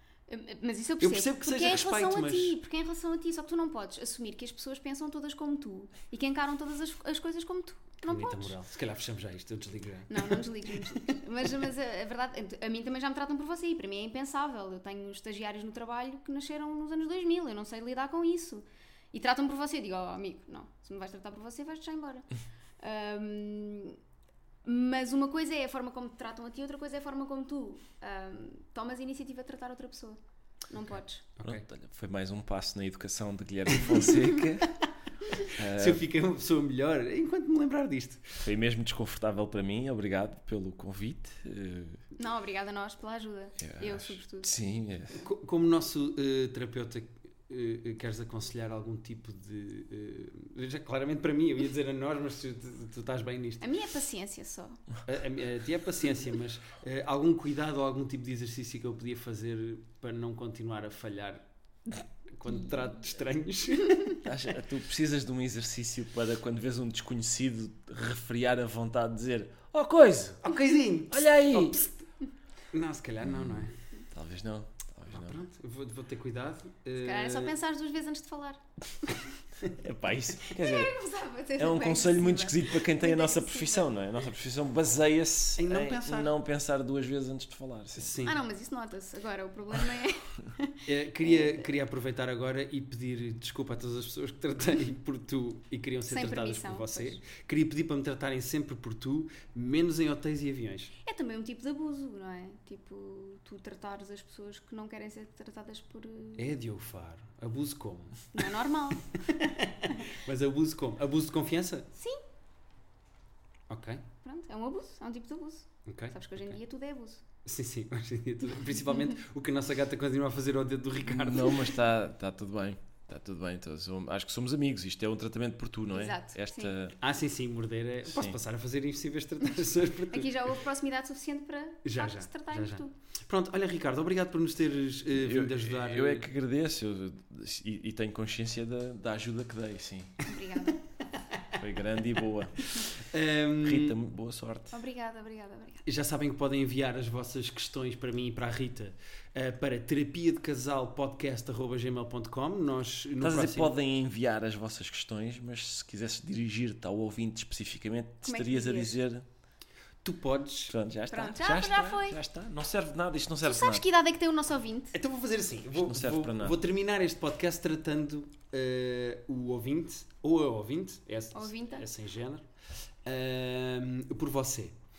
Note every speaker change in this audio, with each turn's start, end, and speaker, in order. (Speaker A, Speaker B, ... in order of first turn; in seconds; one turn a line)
Speaker A: 0.3-8.5
Speaker B: 1.0-2.5
Speaker B: 8.1-10.4
Speaker A: 10.1-22.2
Speaker A: 22.8-24.0
Speaker A: 24.6-30.2
Speaker A: 30.7-31.2
Speaker B: 31.4-31.6
Speaker C: 31.4-34.7
Speaker C: 35.5-36.0
Speaker B: 35.6-38.5
Speaker C: 38.4-42.0
Speaker A: 42.1-44.5
Speaker C: 43.6-45.2
Speaker B: 45.1-53.6
Speaker A: 53.6-54.8
Speaker B: 55.0-64.2
Speaker C: 64.2-70.4
Speaker B: 70.4-71.9
Speaker C: 71.1-71.8
Speaker B: 72.7-73.7
Speaker C: 73.2-75.3
Speaker B: 75.1-77.5
Speaker A: 77.0-79.1
Speaker C: 79.8-80.9
Speaker A: 80.5-83.9
Speaker C: 81.6-88.1
Speaker B: 85.6-86.3
Speaker B: 87.9-88.4
Speaker A: 88.2-91.7
Speaker B: 90.8-100.9
Speaker A: 96.1-97.2
Speaker A: 101.0-106.5
Speaker B: 106.4-108.3
Speaker A: 108.3-109.0
Speaker B: 109.3-111.9
Speaker A: 111.9-112.2
Speaker B: 113.7-114.0
Speaker A: 114.2-117.2
Speaker B: 115.9-116.5
Speaker B: 117.4-121.7
Speaker C: 121.0-127.0
Speaker A: 125.9-126.7
Speaker B: 127.0-130.4
Speaker C: 128.1-128.4
Speaker A: 130.1-132.9
Speaker B: 131.8-136.3
Speaker C: 135.2-140.2
Speaker A: 140.2-140.8
Speaker C: 141.5-142.7
Speaker B: 142.7-144.0
Speaker C: 143.6-144.8
Speaker A: 144.7-145.8
Speaker B: 145.8-153.7
Speaker C: 153.2-159.2
Speaker A: 158.2-158.9
Speaker B: 160.0-160.7
Speaker C: 160.7-163.8
Speaker A: 161.1-162.2
Speaker A: 163.4-164.9
Speaker B: 164.9-172.4
Speaker C: 165.7-166.6
Speaker A: 171.3-171.8
Speaker B: 173.1-174.7